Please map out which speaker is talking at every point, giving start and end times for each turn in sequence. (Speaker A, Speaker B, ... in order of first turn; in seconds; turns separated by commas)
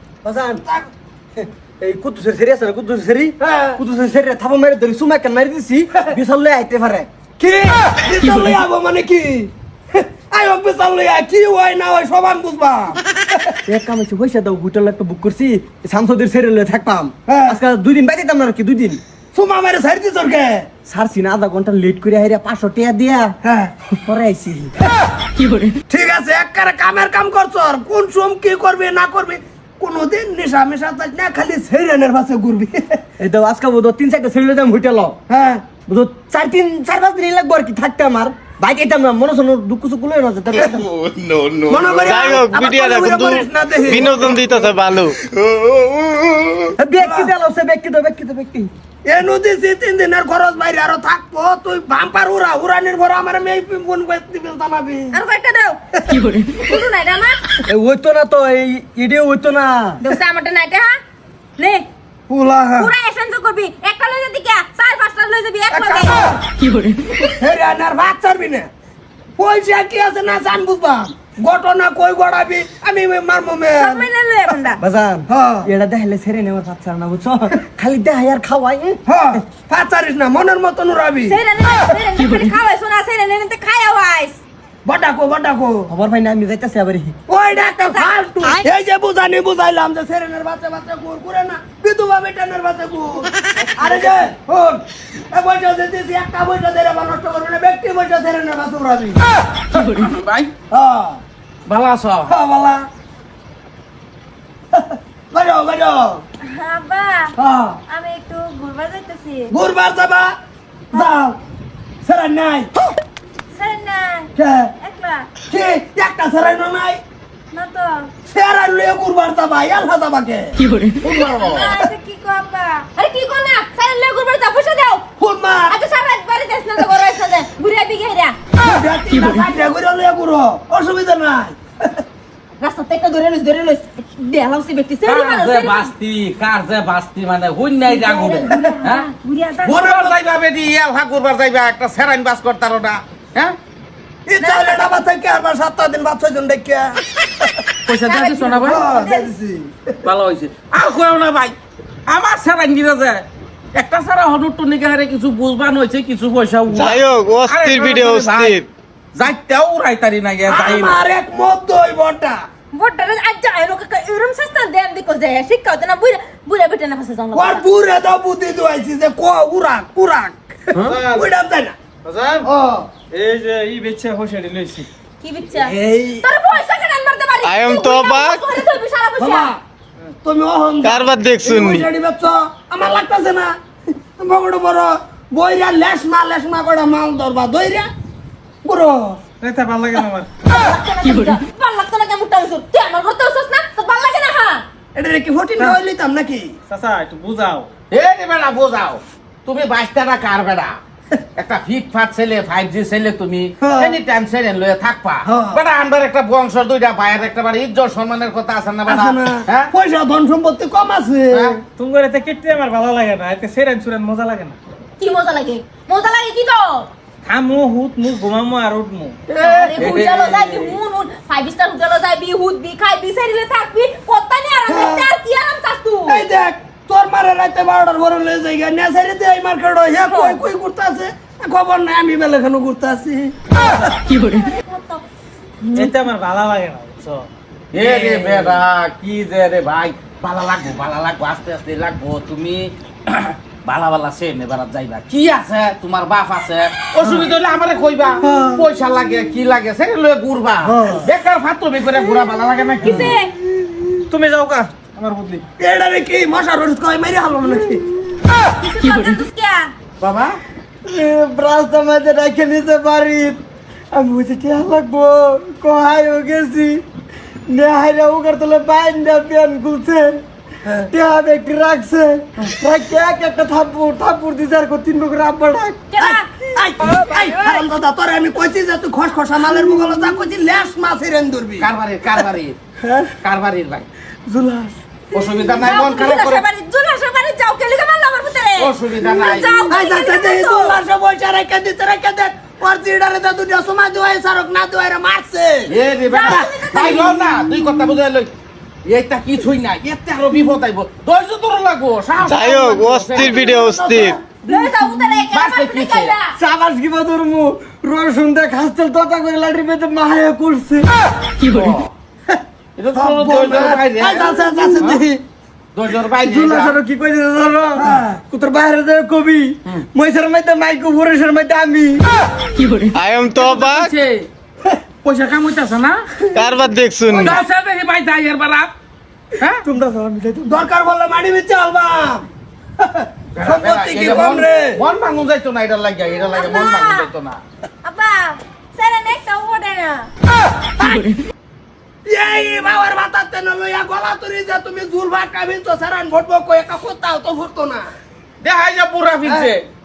Speaker A: 0.2-0.6, Speaker B: 0.6-0.9, Speaker A: 1.4-7.1, Speaker B: 3.4-3.8, Speaker B: 7.4-13.0, Speaker A: 13.7-19.0, Speaker B: 17.3-17.6, Speaker B: 19.3-20.7, Speaker A: 20.9-23.4, Speaker B: 23.4-23.7, Speaker A: 23.9-24.7, Speaker B: 25.9-33.0, Speaker A: 33.2-35.2, Speaker B: 35.3-35.7, Speaker A: 35.9-40.8, Speaker C: 40.6-42.1, Speaker B: 41.7-44.7, Speaker D: 42.0-45.2, Speaker D: 45.8-46.4, Speaker A: 46.8-48.7, Speaker B: 47.0-47.3, Speaker B: 49.1-55.2, Speaker E: 55.1-57.4, Speaker A: 57.7-60.0, Speaker E: 60.0-61.0, Speaker E: 61.6-61.9, Speaker B: 62.3-62.9, Speaker E: 62.8-66.3, Speaker B: 65.7-66.4, Speaker B: 67.4-68.7, Speaker B: 69.4-74.1, Speaker E: 73.8-74.8, Speaker A: 74.8-79.4, Speaker B: 75.3-75.7, Speaker B: 79.1-81.4, Speaker E: 81.3-84.4, Speaker B: 84.8-85.9, Speaker A: 85.9-87.2, Speaker B: 87.3-99.2, Speaker E: 87.7-88.1, Speaker A: 93.8-94.2, Speaker C: 99.7-100.5, Speaker B: 100.7-101.2, Speaker C: 101.7-102.3, Speaker B: 102.3-102.9, Speaker B: 104.7-106.2, Speaker E: 106.5-107.3, Speaker B: 107.4-107.8, Speaker E: 107.9-109.5, Speaker B: 109.5-110.3, Speaker B: 110.9-111.4, Speaker B: 112.0-112.7, Speaker E: 113.5-115.3, Speaker B: 114.4-114.7, Speaker B: 115.5-117.0, Speaker E: 117.5-118.1, Speaker B: 118.3-120.6, Speaker C: 121.0-121.9, Speaker E: 121.2-125.0, Speaker B: 125.2-125.8, Speaker E: 125.7-128.4, Speaker B: 128.6-131.6, Speaker E: 132.6-135.9, Speaker C: 135.1-139.1, Speaker E: 137.9-140.2, Speaker C: 139.7-143.6, Speaker B: 144.3-147.0, Speaker E: 144.4-144.9, Speaker C: 147.9-148.8, Speaker E: 148.1-149.3, Speaker B: 148.6-149.9, Speaker C: 150.0-151.6, Speaker C: 152.1-161.0, Speaker D: 156.7-158.7, Speaker B: 160.4-162.4, Speaker E: 162.7-167.7, Speaker B: 167.3-171.8, Speaker F: 170.8-171.3, Speaker F: 172.0-172.5, Speaker B: 172.5-172.9, Speaker F: 173.1-174.9, Speaker E: 175.2-179.5, Speaker B: 175.9-176.2, Speaker D: 177.4-178.4, Speaker B: 179.2-179.6, Speaker B: 180.2-183.5, Speaker D: 180.8-181.9, Speaker B: 184.2-187.9, Speaker B: 188.6-189.2, Speaker F: 189.4-190.3, Speaker E: 190.5-194.6, Speaker B: 194.9-196.6, Speaker F: 196.7-197.7, Speaker C: 197.9-200.8, Speaker C: 201.4-209.7, Speaker B: 203.6-204.0, Speaker B: 205.2-205.6, Speaker B: 208.9-211.6, Speaker F: 211.8-214.6, Speaker E: 215.0-216.9, Speaker F: 217.2-219.2, Speaker C: 219.3-220.8, Speaker E: 219.4-226.3, Speaker B: 224.7-225.1, Speaker B: 226.1-233.9, Speaker E: 230.1-230.4, Speaker E: 233.7-235.0, Speaker E: 235.6-235.9, Speaker F: 235.7-238.6, Speaker C: 237.7-253.2, Speaker A: 250.7-251.0, Speaker E: 252.8-253.3, Speaker F: 254.1-255.4, Speaker B: 255.6-258.0, Speaker E: 258.6-259.7, Speaker C: 260.0-260.4, Speaker A: 260.9-263.4, Speaker A: 263.9-266.8, Speaker A: 267.5-270.2, Speaker A: 270.9-275.8, Speaker E: 275.9-276.3, Speaker B: 276.0-281.7, Speaker E: 277.1-277.6, Speaker C: 281.6-282.6, Speaker A: 282.8-283.1, Speaker C: 283.2-283.9, Speaker A: 284.3-285.2, Speaker C: 285.1-286.4, Speaker E: 285.6-290.8, Speaker C: 288.6-289.5, Speaker B: 289.7-295.7, Speaker C: 295.7-298.3, Speaker E: 296.1-297.3, Speaker C: 298.9-303.5, Speaker D: 302.2-304.2, Speaker B: 303.1-304.2, Speaker E: 304.4-306.3, Speaker C: 305.3-306.1, Speaker A: 306.4-310.9, Speaker C: 311.4-311.9, Speaker C: 312.8-315.0, Speaker B: 312.9-315.2, Speaker C: 315.7-316.8, Speaker A: 316.2-322.1, Speaker B: 317.8-318.2, Speaker D: 322.9-323.9, Speaker C: 323.4-324.3, Speaker C: 325.0-326.0, Speaker D: 326.4-327.4, Speaker C: 327.2-328.7, Speaker A: 329.6-330.6, Speaker B: 330.4-332.3, Speaker B: 332.8-334.8, Speaker C: 333.3-337.4, Speaker E: 336.2-337.1, Speaker E: 337.8-340.1, Speaker B: 340.8-341.1, Speaker B: 342.1-347.9, Speaker C: 348.4-349.6, Speaker B: 349.2-349.5